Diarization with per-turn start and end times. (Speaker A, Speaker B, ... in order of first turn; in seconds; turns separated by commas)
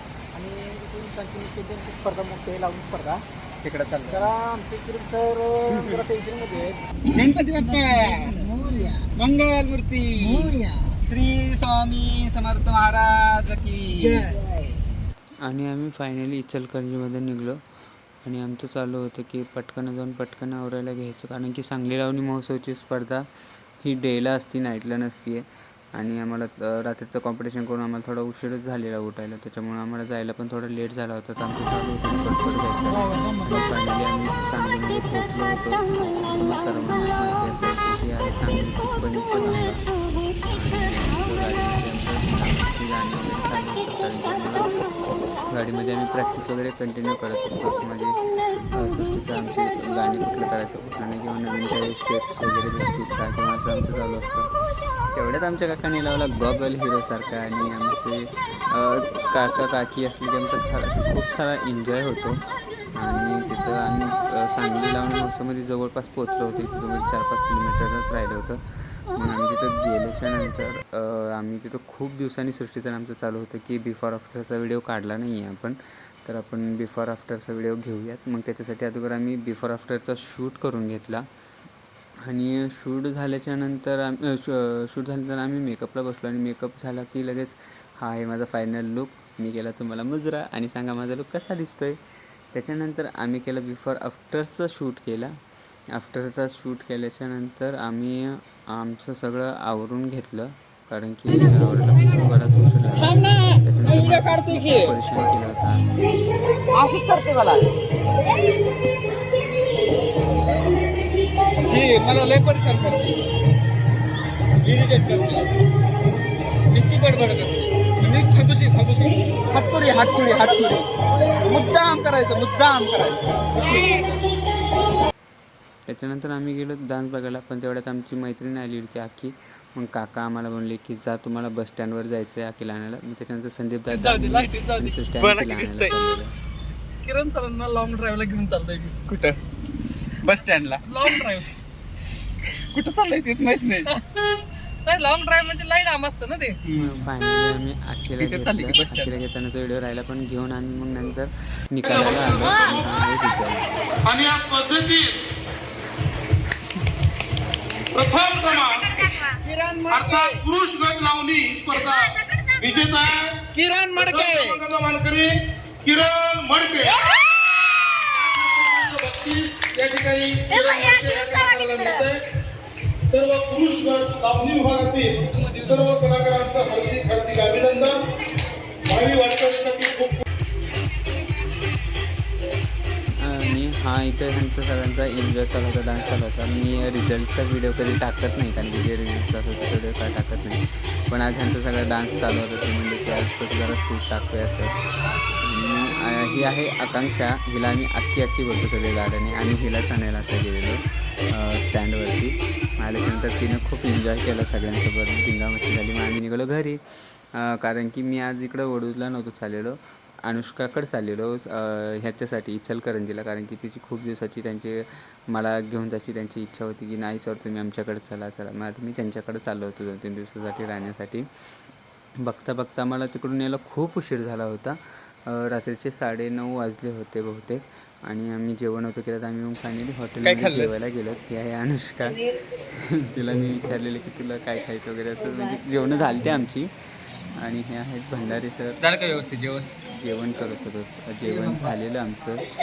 Speaker A: 0.3-3.2, Speaker B: 3.6-4.3, Speaker A: 4.1-6.8, Speaker B: 7.1-8.5, Speaker A: 8.4-9.0, Speaker B: 9.1-10.6, Speaker B: 11.1-14.4, Speaker C: 15.4-17.6, Speaker C: 18.2-23.3, Speaker C: 23.8-39.8, Speaker C: 40.5-44.7, Speaker C: 45.5-48.2, Speaker C: 48.7-54.5, Speaker C: 55.1-62.4, Speaker C: 63.0-81.2, Speaker C: 82.2-92.0, Speaker C: 92.5-95.3, Speaker C: 95.9-106.1, Speaker B: 103.0-105.0, Speaker B: 106.7-107.7, Speaker B: 111.7-113.2, Speaker B: 114.6-115.5, Speaker B: 116.7-120.9, Speaker B: 121.4-124.0, Speaker C: 125.9-136.3, Speaker D: 133.9-134.9, Speaker B: 135.2-135.9, Speaker D: 137.0-139.0, Speaker B: 139.1-139.4, Speaker B: 140.2-141.2, Speaker D: 140.9-141.5, Speaker B: 142.7-143.9, Speaker D: 144.9-146.6, Speaker B: 146.7-147.0, Speaker C: 146.8-153.7, Speaker B: 148.2-149.1, Speaker E: 151.8-152.8, Speaker E: 154.0-155.2, Speaker E: 157.9-159.2, Speaker B: 159.4-160.4, Speaker E: 159.9-165.3, Speaker B: 163.6-164.6, Speaker E: 165.8-167.1, Speaker E: 168.1-172.2, Speaker E: 173.1-178.1, Speaker D: 175.4-175.8, Speaker E: 178.8-180.2, Speaker C: 183.1-194.7, Speaker C: 195.4-221.3, Speaker C: 222.2-236.7, Speaker B: 230.2-230.9, Speaker C: 237.3-238.8, Speaker B: 238.8-239.7, Speaker C: 239.9-242.5